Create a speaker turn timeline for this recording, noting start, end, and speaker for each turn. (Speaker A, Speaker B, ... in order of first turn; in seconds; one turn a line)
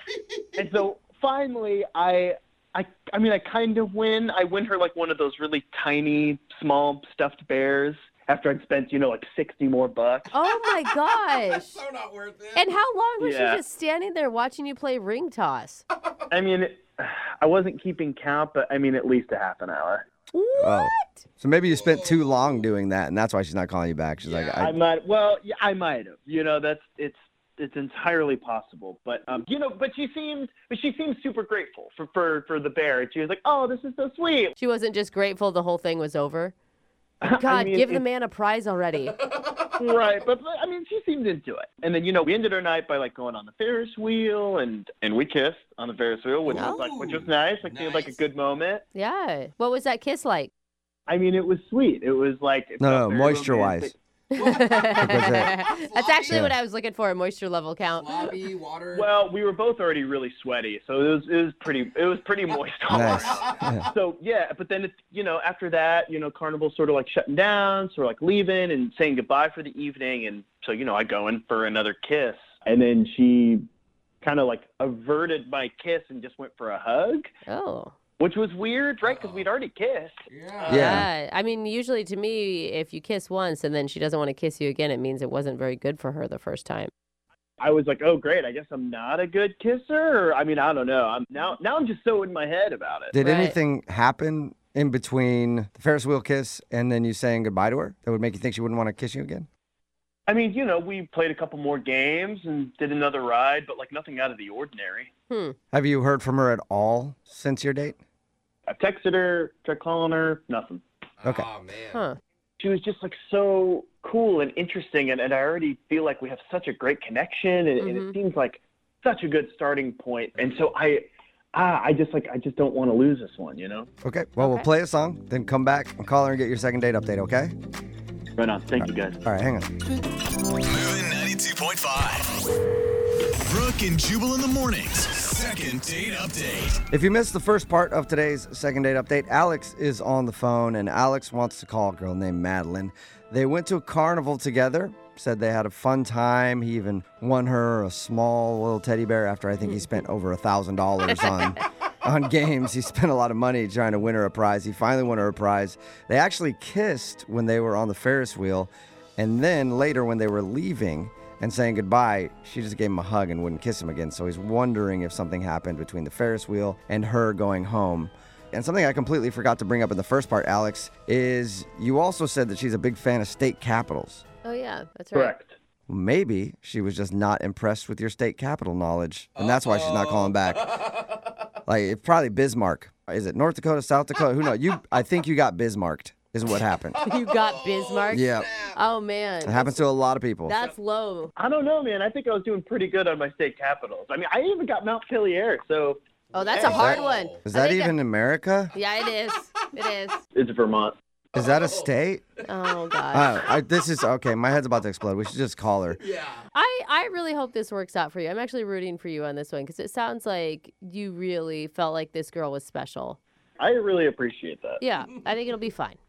Speaker A: 0.2-0.5
Speaker B: 0.6-10.3
Speaker C: 10.3-11.8
Speaker A: 11.7-12.8
Speaker C: 12.6-15.8
Speaker B: 13.2-13.6
Speaker A: 15.9-16.2
Speaker B: 16.3-20.1
Speaker C: 20.3-21.2
Speaker D: 20.6-24.8
Speaker A: 21.7-22.6
Speaker A: 24.2-24.7
Speaker B: 24.6-34.6
Speaker C: 34.6-36.5
Speaker B: 37.2-38.0
Speaker C: 37.4-39.1
Speaker A: 39.2-39.7
Speaker B: 39.8-48.8
Speaker A: 46.5-48.3
Speaker C: 46.5-46.8
Speaker C: 48.9-50.5
Speaker B: 51.1-54.0
Speaker D: 52.8-53.9
Speaker A: 54.3-56.5
Speaker C: 54.4-58.3
Speaker D: 55.0-55.5
Speaker A: 58.0-59.1
Speaker B: 58.9-73.7
Speaker D: 62.9-63.9
Speaker A: 63.0-63.9
Speaker B: 74.2-77.3
Speaker C: 77.5-78.0
Speaker B: 78.2-80.2
Speaker A: 79.1-79.4
Speaker A: 80.3-81.0
Speaker D: 80.7-81.1
Speaker C: 80.7-86.9
Speaker B: 87.6-93.1
Speaker D: 93.1-99.5
Speaker C: 93.2-93.6
Speaker B: 100.3-105.1
Speaker C: 105.3-105.6
Speaker D: 105.7-108.0
Speaker B: 108.7-110.8
Speaker A: 111.2-112.0
Speaker B: 112.6-123.9
Speaker C: 117.8-118.2
Speaker D: 124.0-127.5
Speaker C: 124.4-124.7
Speaker B: 128.4-129.2
Speaker D: 128.8-129.7
Speaker E: 130.6-132.4
Speaker E: 133.5-136.8
Speaker D: 136.9-174.2
Speaker C: 174.4-175.3
Speaker B: 175.1-175.5
Speaker D: 175.9-180.7
Speaker A: 179.3-181.5
Speaker D: 181.7-187.0
Speaker A: 186.5-188.8
Speaker C: 187.0-189.8
Speaker D: 188.1-188.5
Speaker D: 189.4-190.6
Speaker C: 190.5-191.3
Speaker B: 191.4-197.1
Speaker A: 196.3-197.4
Speaker C: 196.3-197.9
Speaker D: 196.7-198.7
Speaker C: 198.7-200.2
Speaker B: 200.3-201.0
Speaker A: 201.3-201.9
Speaker D: 201.3-202.2
Speaker C: 202.5-203.5
Speaker D: 203.1-206.0
Speaker A: 205.9-206.4
Speaker C: 206.5-213.2
Speaker B: 213.6-214.8
Speaker C: 214.8-216.0